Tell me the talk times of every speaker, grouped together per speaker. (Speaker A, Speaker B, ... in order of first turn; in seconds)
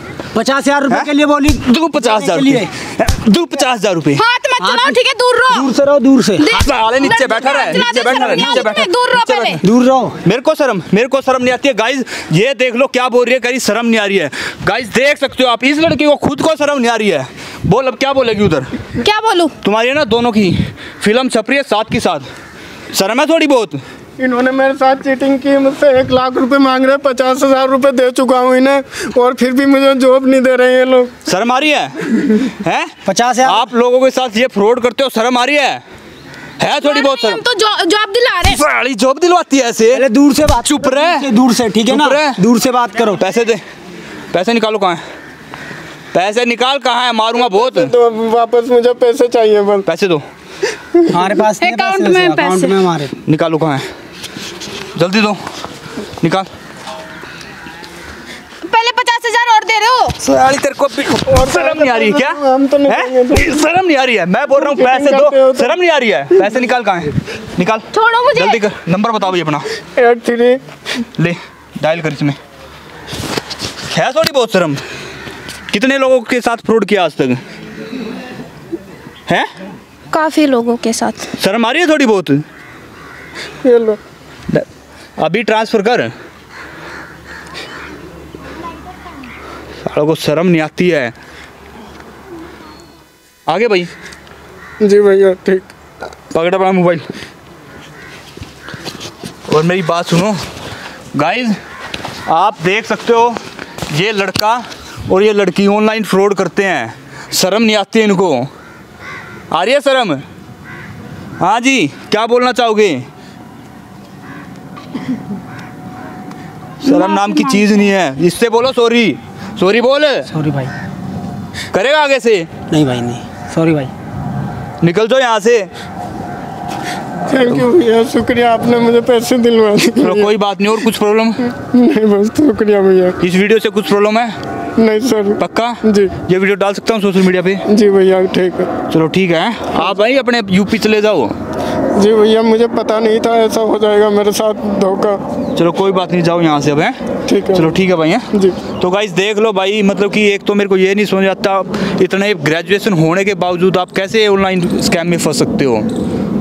Speaker A: 0.3-2.7, 4.6-6.5, 7.6-8.7, 9.6-10.2, 33.0-33.7, 39.9-43.2, 51.1-53.1, 120.3-120.7, 122.7-123.9
Speaker B: 1.6-4.2, 6.5-9.6, 10.2-18.7, 19.6-22.3, 22.9-23.8, 31.2-35.8, 36.6-37.4, 38.4-40.0, 40.6-41.3, 41.9-42.4, 43.0-43.6, 44.3-45.0, 46.1-47.9, 49.9-50.2, 53.2-53.8, 54.9-55.4, 56.2-56.5, 60.2-69.7, 71.2-72.4, 73.9-74.8, 75.7-77.4, 81.4-82.4, 85.2-86.1, 89.8-91.1, 93.5-93.9, 96.3-97.1, 99.5-100.4, 101.1-101.6, 102.3-103.4, 103.9-108.5, 109.5-110.2, 111.4-113.0, 116.8-120.3, 121.7-122.5, 124.8-125.7, 130.0-131.4, 133.2-134.3, 135.4-137.6, 138.9-141.3, 145.6-147.0, 147.5-155.9
Speaker C: 4.2-5.7, 6.4-9.6, 19.0-19.5, 36.6-38.6, 51.6-52.8, 58.6-60.1, 67.9-68.6, 80.1-81.3, 116.9-117.6
Speaker D: 24.2-31.1, 47.3-49.9, 61.2-63.6, 64.5-65.8, 70.0-70.6, 83.6-84.0, 94.8-95.7, 127.2-130.3, 131.6-133.2, 134.8-136.1, 137.7-138.7, 141.9-145.2, 147.3-147.8, 148.3-148.6